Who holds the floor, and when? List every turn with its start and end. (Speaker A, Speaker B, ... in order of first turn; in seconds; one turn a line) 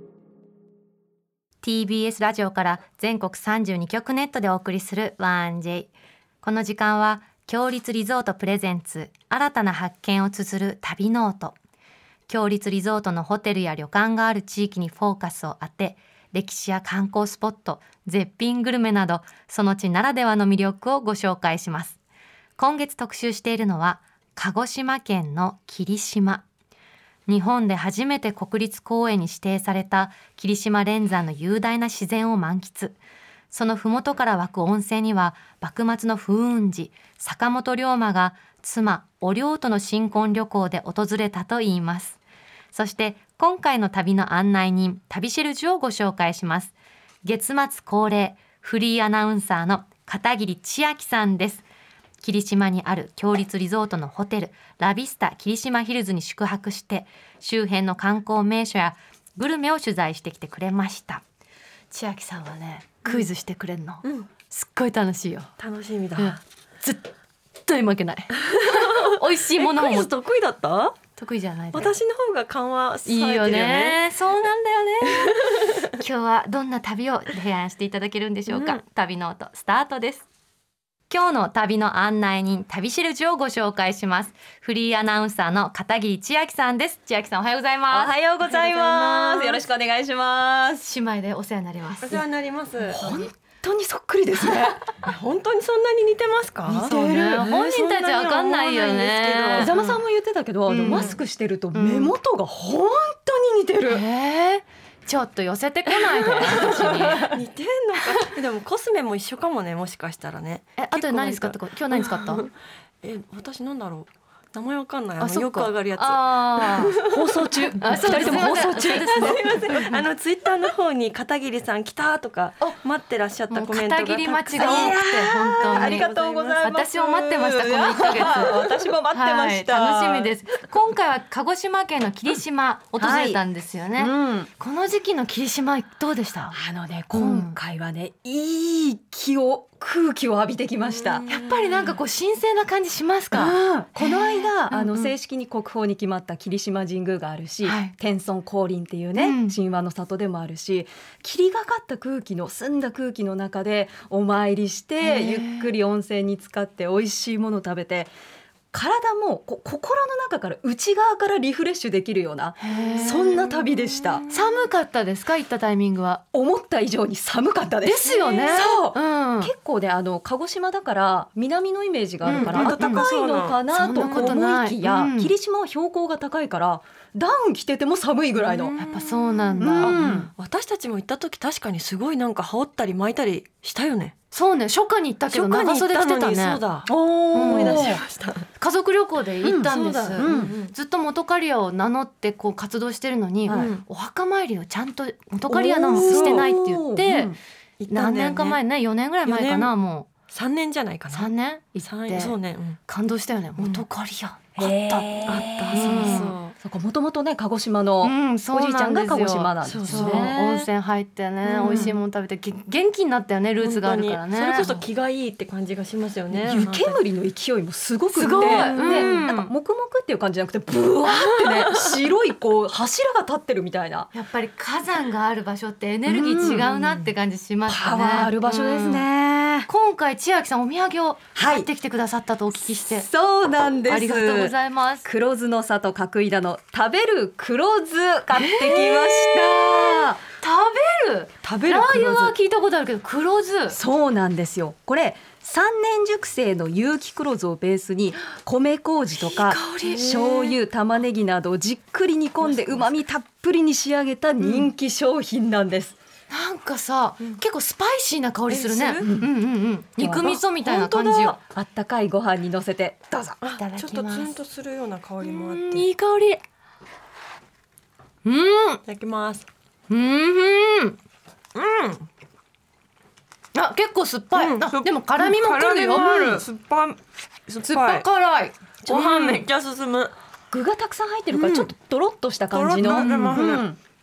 Speaker A: 1.6-11.6
Speaker A: 12.3-22.0
Speaker A: 22.6-26.5
Speaker A: 27.3-33.0
Speaker A: 33.5-42.2
Speaker A: 42.7-51.6
Speaker A: 52.2-61.2
Speaker A: 61.9-65.5
Speaker B: 65.6-66.4
Speaker A: 66.2-67.1
Speaker A: 67.7-70.1
Speaker B: 68.4-71.0
Speaker A: 71.2-72.0
Speaker B: 71.7-74.0
Speaker A: 73.1-75.4
Speaker B: 75.0-75.9
Speaker A: 76.0-80.3
Speaker B: 78.5-78.8
Speaker A: 81.1-89.6
Speaker C: 87.9-90.8
Speaker A: 90.8-92.2
Speaker B: 92.0-93.2
Speaker C: 92.9-94.9
Speaker B: 95.0-99.8
Speaker C: 96.7-97.5
Speaker A: 96.8-100.0
Speaker C: 99.5-104.0
Speaker A: 100.7-101.2
Speaker B: 100.9-101.2
Speaker A: 101.7-102.2
Speaker A: 103.9-107.3
Speaker B: 106.6-112.5
Speaker C: 106.6-107.2
Speaker A: 110.8-112.5
Speaker B: 113.0-125.0
Speaker A: 115.2-117.0
Speaker C: 117.0-119.4
Speaker A: 117.8-120.0
Speaker A: 123.5-126.1
Speaker C: 124.5-130.3
Speaker B: 125.7-126.7
Speaker A: 126.6-136.6
Speaker C: 133.0-133.4
Speaker C: 134.0-134.5
Speaker C: 136.5-141.3
Speaker A: 137.1-137.6
Speaker B: 141.0-141.9
Speaker A: 141.3-145.1
Speaker C: 143.3-158.1
Speaker A: 147.6-147.9
Speaker A: 149.2-149.6
Speaker A: 155.0-155.7
Speaker C: 158.7-164.2
Speaker A: 162.6-163.5
Speaker B: 164.0-164.5
Speaker A: 164.3-166.2
Speaker C: 166.3-178.7
Speaker A: 167.8-169.5
Speaker B: 168.1-168.5
Speaker A: 172.2-173.1
Speaker B: 172.3-174.3
Speaker A: 173.7-175.3
Speaker B: 178.5-184.2
Speaker A: 178.8-180.2
Speaker C: 179.6-180.3
Speaker A: 184.3-186.6
Speaker B: 185.3-188.5
Speaker C: 186.9-188.0
Speaker A: 187.3-187.9
Speaker A: 188.6-197.3
Speaker C: 189.4-190.6
Speaker B: 189.7-190.7
Speaker C: 193.5-193.7
Speaker B: 193.5-193.8
Speaker C: 195.5-197.4
Speaker B: 195.9-196.6
Speaker B: 197.8-198.6
Speaker A: 197.9-200.1
Speaker B: 199.3-199.7
Speaker B: 200.3-202.8
Speaker A: 201.1-202.4
Speaker A: 202.9-206.3
Speaker B: 203.6-203.8
Speaker C: 204.6-210.7
Speaker B: 205.7-206.6
Speaker A: 208.0-214.8
Speaker B: 209.6-210.3
Speaker B: 211.5-212.0
Speaker B: 213.6-217.0
Speaker C: 216.3-224.1
Speaker A: 218.1-219.5
Speaker B: 218.4-219.3
Speaker B: 221.1-221.9
Speaker A: 224.1-229.1
Speaker C: 226.1-226.9
Speaker C: 227.7-229.7
Speaker A: 229.7-233.1
Speaker C: 231.3-231.7
Speaker C: 233.0-240.2
Speaker A: 233.9-235.1
Speaker A: 238.3-243.8
Speaker C: 241.4-242.3
Speaker C: 243.7-256.0
Speaker B: 249.5-250.6
Speaker A: 256.3-261.4
Speaker B: 258.5-259.1
Speaker C: 259.0-259.3
Speaker C: 260.0-263.4
Speaker B: 263.4-265.9
Speaker A: 263.5-264.4
Speaker A: 265.2-266.4
Speaker A: 268.2-268.8
Speaker B: 268.9-269.5
Speaker A: 269.9-271.0
Speaker B: 271.6-272.1
Speaker A: 273.5-276.4
Speaker B: 274.4-278.1
Speaker A: 277.6-279.5
Speaker B: 278.8-280.1
Speaker C: 280.5-283.8
Speaker B: 281.3-281.7
Speaker B: 282.5-283.7
Speaker A: 282.8-283.5